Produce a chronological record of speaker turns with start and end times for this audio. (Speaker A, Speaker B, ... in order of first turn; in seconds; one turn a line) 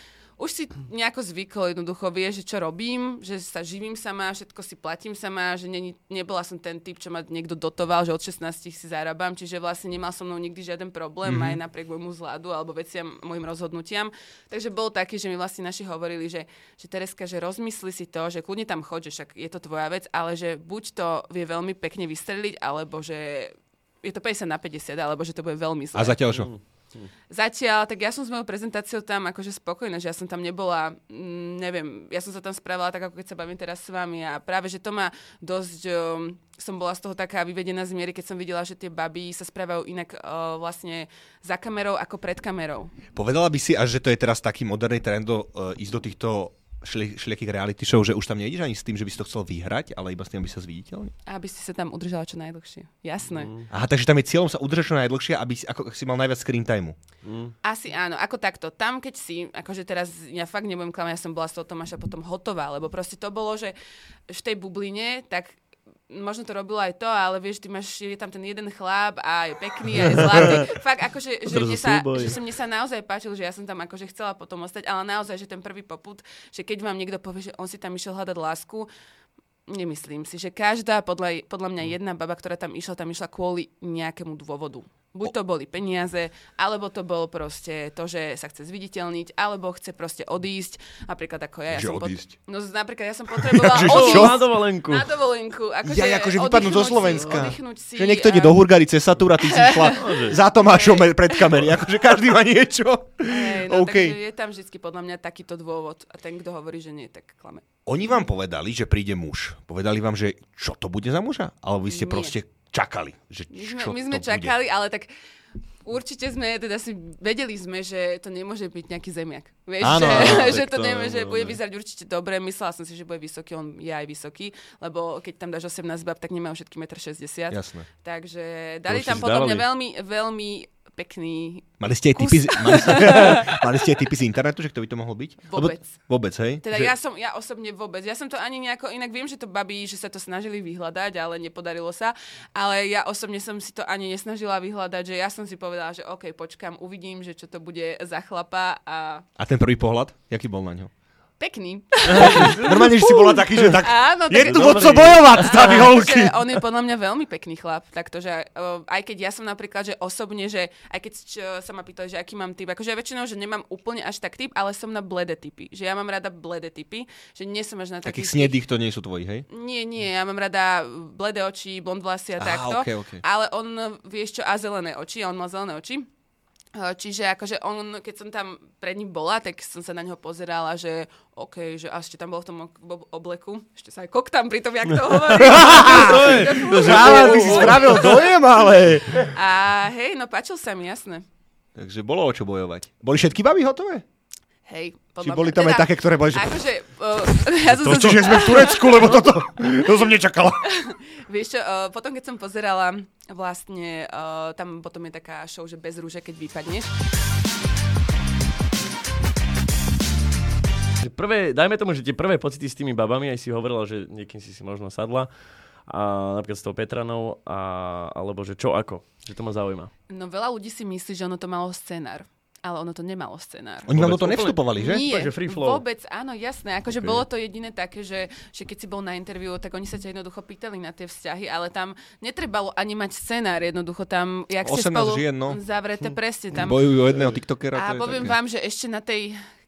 Speaker A: 0.4-26.2
Speaker B: 11.2-11.6
Speaker B: 25.9-26.5
Speaker C: 26.3-27.1
Speaker A: 27.3-42.9
Speaker B: 43.1-51.1
Speaker A: 51.3-53.5
Speaker C: 53.3-53.7
Speaker B: 53.7-57.0
Speaker C: 57.2-57.5
Speaker A: 57.6-63.7
Speaker A: 64.3-65.6
Speaker A: 66.1-78.9
Speaker B: 70.3-70.6
Speaker C: 71.5-72.4
Speaker A: 79.7-98.6
Speaker B: 91.7-92.3
Speaker B: 93.4-94.4
Speaker C: 93.8-95.1
Speaker B: 95.8-104.2
Speaker C: 97.1-97.4
Speaker A: 99.5-101.6
Speaker C: 99.9-100.4
Speaker A: 103.3-108.2
Speaker B: 107.9-114.5
Speaker A: 111.9-112.3
Speaker A: 113.5-115.1
Speaker A: 115.8-133.6
Speaker B: 119.8-120.6
Speaker C: 119.9-121.6
Speaker B: 127.5-127.9
Speaker C: 128.9-129.7
Speaker B: 131.8-136.9
Speaker A: 135.5-136.1
Speaker A: 136.6-149.2
Speaker B: 149.4-150.9
Speaker A: 151.4-168.6
Speaker C: 152.0-152.9
Speaker B: 152.1-156.6
Speaker C: 154.3-155.9
Speaker B: 168.1-169.4
Speaker A: 169.5-176.1
Speaker B: 172.4-173.2
Speaker A: 176.8-188.3
Speaker C: 185.3-188.3
Speaker B: 185.4-189.3
Speaker A: 189.1-191.2
Speaker B: 191.8-194.0
Speaker A: 194.7-199.2
Speaker B: 195.2-196.6
Speaker B: 197.6-200.6
Speaker A: 200.6-206.9
Speaker C: 211.0-215.3
Speaker C: 215.9-219.9
Speaker A: 220.1-223.9
Speaker B: 223.9-225.1
Speaker C: 223.9-225.8
Speaker A: 224.8-236.9
Speaker C: 226.9-227.2
Speaker B: 234.6-235.6
Speaker B: 236.5-238.4
Speaker A: 237.7-239.4